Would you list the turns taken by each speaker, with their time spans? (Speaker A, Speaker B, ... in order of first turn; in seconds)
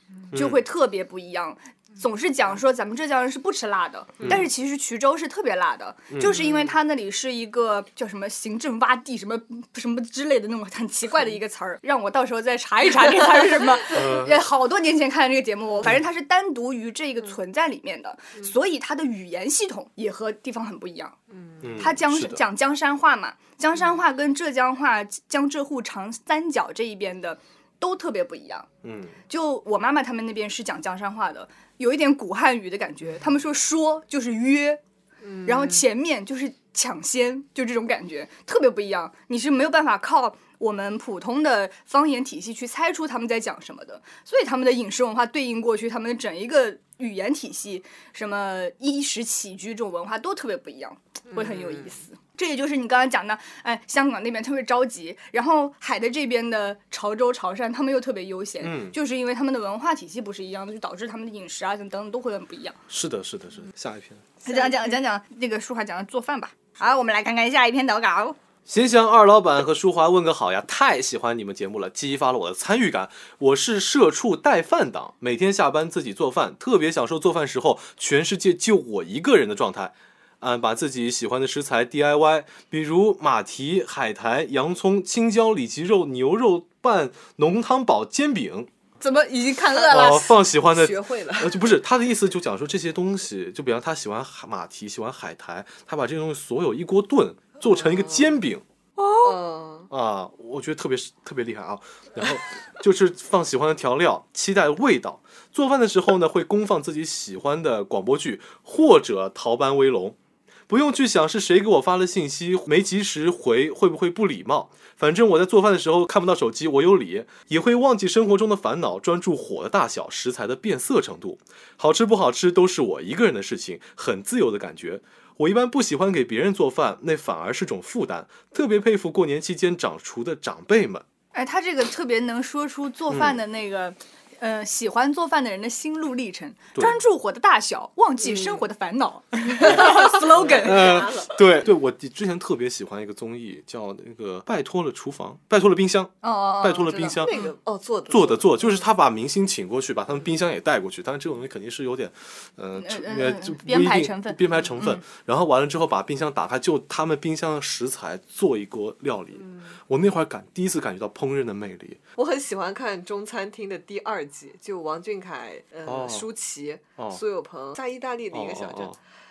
Speaker A: 0.3-21.2, 21.8-28.7, 29.3-34.8, 35.5-62.8, 64.4-68.4, 89.0-90.4, 99.0-99.3, 131.3-141.1, 146.2-147.4, 152.8-155.0
Speaker B: 0.3-0.6, 4.2-4.5, 6.1-6.5, 13.9-14.4, 21.6-22.4, 28.8-29.2, 58.6-59.0, 62.9-64.3, 68.7-88.7, 89.9-98.6, 99.9-110.2, 110.7-131.0, 133.1-133.4, 140.5-147.4, 148.1-162.0, 165.8-166.3, 168.3-169.0
Speaker C: 21.3-21.8, 35.2-35.8, 51.3-52.0, 90.5-91.7, 97.7-98.4, 99.2-99.9, 138.3-138.6, 139.7-141.4, 147.2-148.7, 159.4-159.7, 162.2-169.0